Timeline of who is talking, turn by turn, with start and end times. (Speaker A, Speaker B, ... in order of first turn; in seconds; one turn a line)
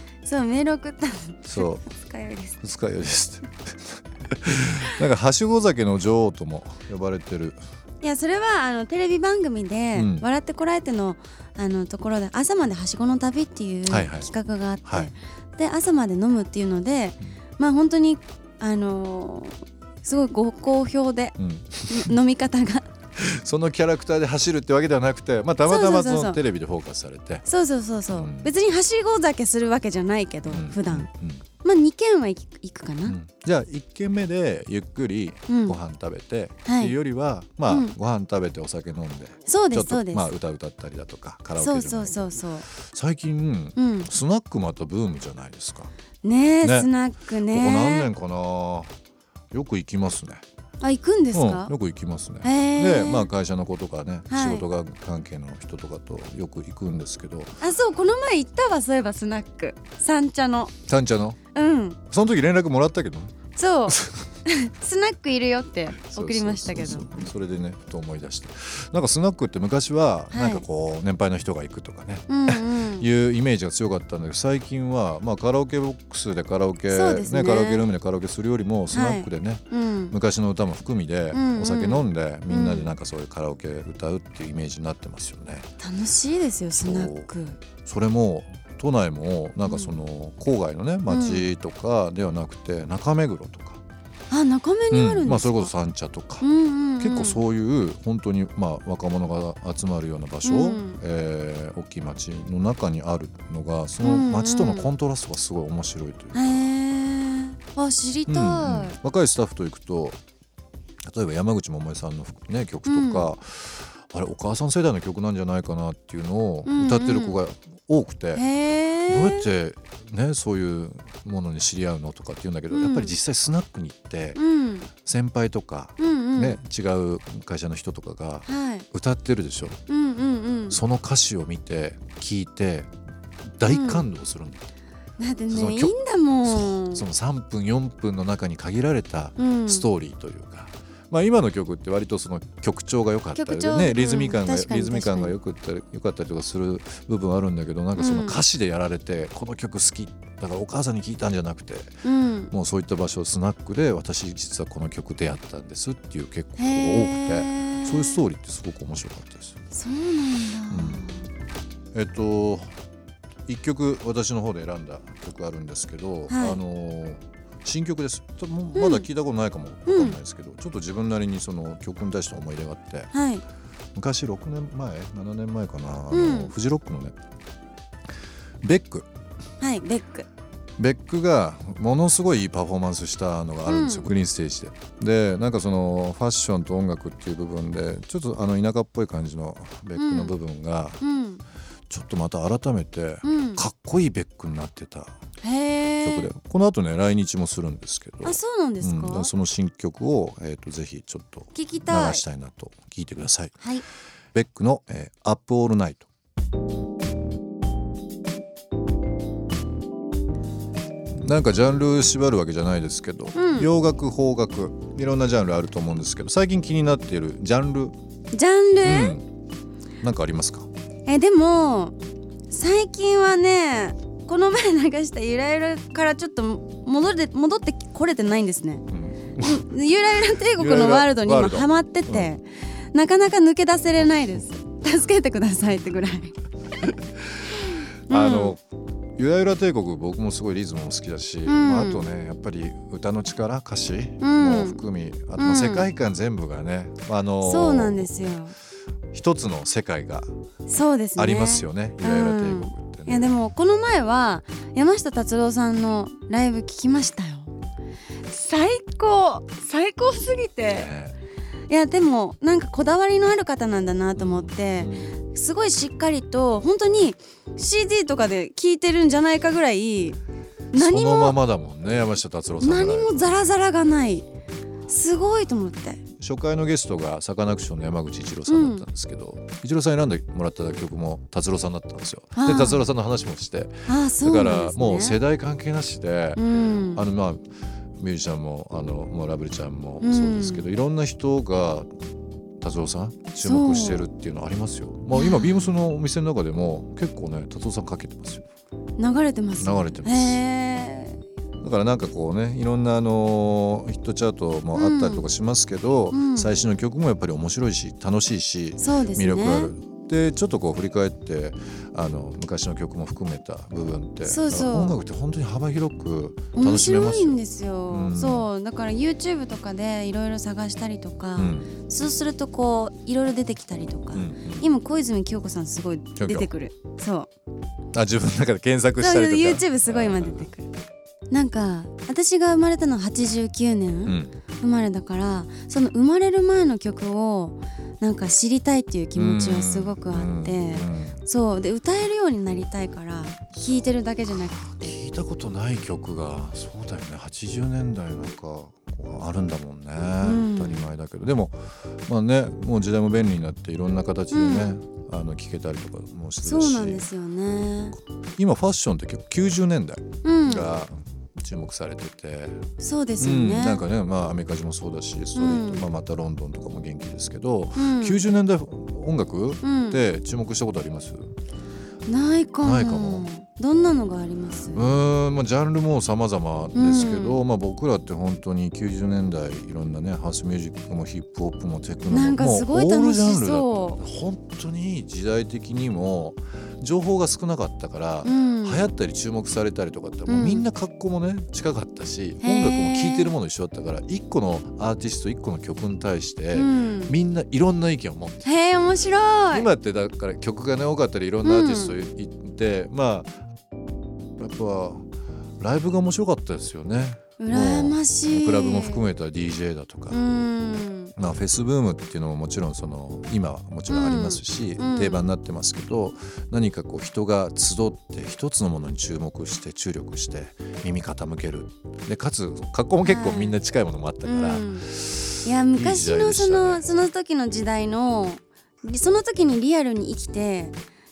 Speaker A: 0.2-2.6
Speaker B: 1.5-1.9
Speaker B: 2.6-7.6
Speaker A: 8.0-21.3
Speaker B: 9.9-10.3
Speaker B: 13.9-14.3
Speaker B: 14.8-15.1
Speaker B: 21.4-22.1
Speaker A: 21.9-22.8
Speaker B: 23.1-27.4
Speaker A: 25.6-26.4
Speaker A: 27.4-31.1
Speaker B: 28.1-28.5
Speaker B: 30.5-31.4
Speaker A: 31.6-33.1
Speaker B: 33.0-45.9
Speaker A: 35.5-35.8
Speaker A: 36.6-36.9
Speaker A: 37.7-37.9
Speaker A: 39.5-40.3
Speaker A: 41.6-42.7
Speaker A: 43.8-44.1
Speaker A: 46.2-48.1
Speaker B: 46.6-46.9
Speaker B: 47.5-48.9
Speaker B: 49.5-50.4
Speaker A: 50.8-51.7
Speaker B: 51.3-57.6
Speaker A: 52.4-53.3
Speaker A: 54.3-54.6
Speaker A: 57.6-60.7
Speaker B: 60.9-61.4
Speaker A: 61.5-62.0
Speaker B: 62.1-63.3
Speaker A: 63.5-67.1
Speaker B: 66.0-85.7
Speaker A: 70.3-70.6
Speaker A: 72.3-73.0
Speaker A: 76.9-77.8
Speaker A: 78.9-80.1
Speaker A: 81.3-82.9
Speaker A: 85.8-87.6
Speaker B: 86.8-93.8
Speaker A: 89.7-89.9
Speaker A: 91.1-91.4
Speaker A: 94.3-95.7
Speaker B: 94.9-96.5
Speaker A: 96.4-97.4
Speaker B: 97.0-106.6
Speaker A: 100.4-101.0
Speaker A: 104.0-104.9
Speaker A: 106.3-109.0
Speaker B: 108.3-110.2
Speaker B: 111.0-118.4
Speaker A: 112.8-113.3
Speaker A: 116.7-117.4
Speaker A: 118.3-119.5
Speaker B: 119.1-124.4
Speaker A: 122.7-123.1
Speaker A: 124.3-124.9
Speaker B: 125.0-129.8
Speaker A: 126.0-126.6
Speaker A: 128.5-128.8
Speaker A: 129.9-130.8
Speaker B: 130.7-132.9
Speaker B: 133.6-134.7
Speaker A: 133.7-134.0
Speaker A: 135.2-137.0
Speaker B: 135.5-152.0
Speaker A: 139.4-139.8
Speaker A: 143.3-145.3
Speaker A: 148.0-148.4
Speaker A: 152.0-152.5
Speaker B: 152.5-159.6
Speaker A: 156.6-158.2
Speaker A: 159.7-161.2
Speaker B: 160.7-161.1
Speaker B: 161.9-162.7
Speaker B: 163.5-173.1
Speaker A: 166.3-166.6
Speaker A: 168.7-169.1
Speaker A: 169.9-170.2
Speaker A: 173.1-173.4
Speaker B: 173.9-177.1
Speaker A: 176.1-176.5
Speaker B: 178.6-179.1
Speaker A: 179.6-180.3
Speaker B: 180.8-191.0
Speaker A: 183.7-184.1
Speaker A: 189.9-190.3
Speaker A: 191.0-191.4
Speaker B: 191.9-195.2
Speaker A: 193.2-193.6
Speaker A: 195.4-196.3
Speaker B: 196.0-203.6
Speaker A: 198.2-199.3
Speaker A: 201.5-202.2
Speaker B: 204.3-206.1
Speaker B: 211.1-217.9
Speaker A: 213.3-213.7
Speaker A: 218.3-219.2
Speaker B: 218.8-219.2
Speaker B: 220.0-220.7
Speaker A: 221.1-221.9
Speaker A: 222.5-228.8
Speaker B: 228.9-229.7
Speaker A: 229.4-232.4
Speaker B: 230.6-232.3
Speaker A: 232.9-236.3
Speaker A: 238.1-238.6
Speaker B: 238.1-238.6
Speaker B: 239.2-248.1
Speaker A: 241.4-242.0
Speaker A: 244.2-244.8
Speaker A: 245.4-245.8
Speaker A: 247.4-248.6
Speaker B: 249.1-250.3
Speaker A: 250.7-257.5
Speaker B: 251.2-253.3
Speaker A: 258.3-260.9
Speaker B: 260.7-261.2
Speaker A: 261.7-270.2
Speaker B: 264.1-265.1
Speaker A: 270.7-271.4
Speaker B: 270.7-273.3
Speaker A: 272.6-274.2
Speaker A: 274.9-276.0
Speaker B: 276.2-286.4
Speaker A: 278.5-278.9
Speaker A: 282.4-282.8
Speaker A: 283.9-285.2
Speaker A: 286.4-287.0
Speaker B: 286.9-287.4
Speaker B: 288.0-291.9
Speaker A: 290.0-290.7
Speaker B: 292.6-298.4
Speaker A: 293.4-294.0
Speaker A: 295.1-295.7
Speaker A: 299.0-301.2
Speaker B: 299.6-300.4
Speaker B: 301.6-317.4
Speaker A: 304.7-305.3
Speaker A: 306.1-306.5
Speaker A: 308.8-309.7
Speaker A: 314.2-314.9
Speaker A: 316.5-327.3
Speaker B: 317.9-318.5
Speaker B: 321.4-321.8
Speaker B: 324.1-324.7
Speaker B: 326.1-326.5
Speaker B: 327.9-330.5
Speaker A: 329.0-330.7
Speaker A: 331.3-344.9
Speaker B: 334.1-334.4
Speaker B: 339.1-341.2
Speaker B: 344.4-357.1
Speaker A: 350.2-350.9
Speaker A: 354.3-354.8
Speaker A: 356.4-358.0
Speaker B: 358.4-362.6
Speaker A: 360.2-360.7
Speaker A: 362.8-363.8
Speaker B: 363.2-371.4
Speaker A: 365.3-365.9
Speaker A: 367.7-368.2
Speaker A: 369.6-370.0
Speaker A: 372.1-374.9
Speaker B: 372.6-373.3
Speaker B: 374.7-398.5
Speaker A: 376.7-377.4
Speaker A: 382.1-384.0
Speaker A: 388.2-388.9
Speaker A: 390.3-390.6
Speaker A: 392.4-393.3
Speaker A: 396.5-397.1
Speaker A: 398.4-399.7
Speaker B: 399.5-403.4
Speaker A: 401.4-401.9
Speaker B: 404.4-405.1
Speaker B: 405.6-410.2
Speaker A: 407.4-409.0
Speaker A: 410.1-411.1
Speaker B: 411.2-426.8
Speaker A: 413.9-415.3
Speaker A: 423.0-423.6
Speaker A: 424.2-424.9
Speaker A: 425.4-430.8